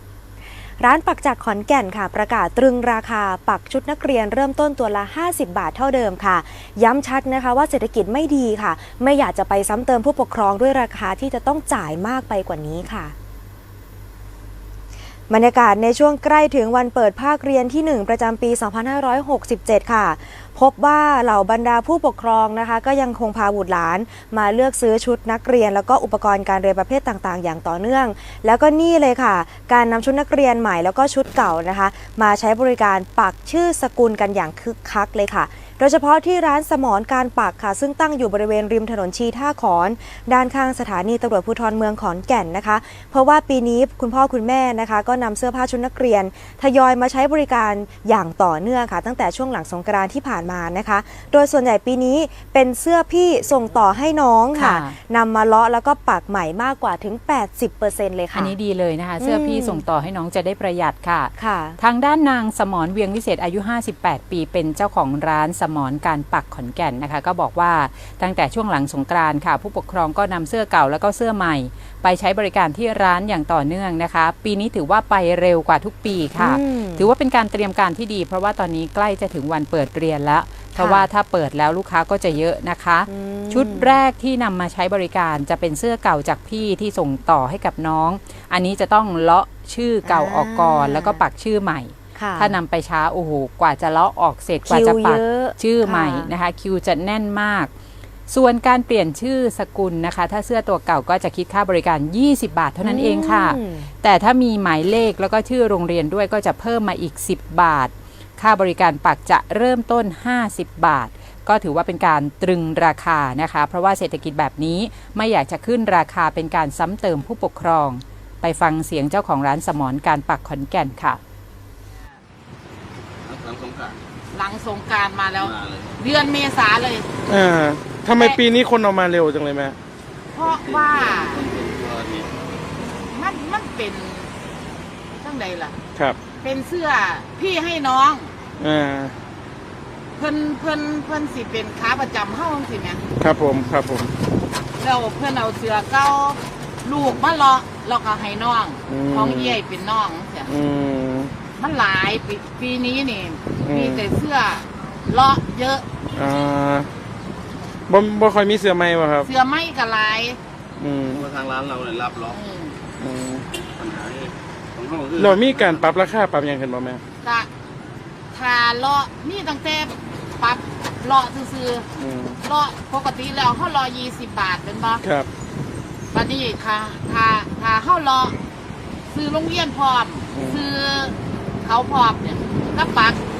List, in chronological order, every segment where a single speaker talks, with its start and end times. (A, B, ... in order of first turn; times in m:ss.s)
0:00.8-0:13.1 A
0:15.3-0:58.5 A
0:54.5-0:55.0 B
0:58.3-1:37.7 B
0:59.2-0:59.8 A
1:01.4-1:01.8 A
1:16.4-1:17.1 A
1:20.8-1:21.1 A
1:23.1-1:24.0 A
1:30.0-1:31.2 A
1:32.1-1:32.6 A
1:34.7-1:36.3 A
1:38.3-2:01.2 B
1:42.8-1:43.9 A
2:03.2-2:04.0 C
2:04.3-2:07.1 D
2:05.4-2:05.9 C
2:07.3-2:09.8 E
2:10.3-2:11.5 D
2:10.4-2:12.3 C
2:13.1-2:14.3 D
2:15.1-2:15.8 D
2:16.0-2:16.2 E
2:16.4-2:18.3 D
2:18.6-2:19.1 E
2:20.2-2:23.0 D
2:23.2-2:24.1 E
2:24.8-2:30.5 D
2:28.9-2:29.6 E
2:30.4-2:31.3 E
2:31.6-2:35.8 D
2:33.6-2:34.0 E
2:36.1-2:36.9 E
2:37.9-2:39.3 E
2:39.2-2:40.4 D
2:40.8-2:41.3 E
2:41.1-2:42.4 C
2:42.3-2:42.8 D
2:43.0-2:43.5 E
2:43.8-2:46.0 C
2:45.2-2:47.0 E
2:47.2-2:47.5 D
2:48.3-2:51.9 D
2:52.0-2:52.4 E
2:52.4-2:55.0 D
2:55.0-2:55.3 E
2:56.1-2:58.3 D
2:59.1-3:03.2 D
3:00.3-3:00.6 E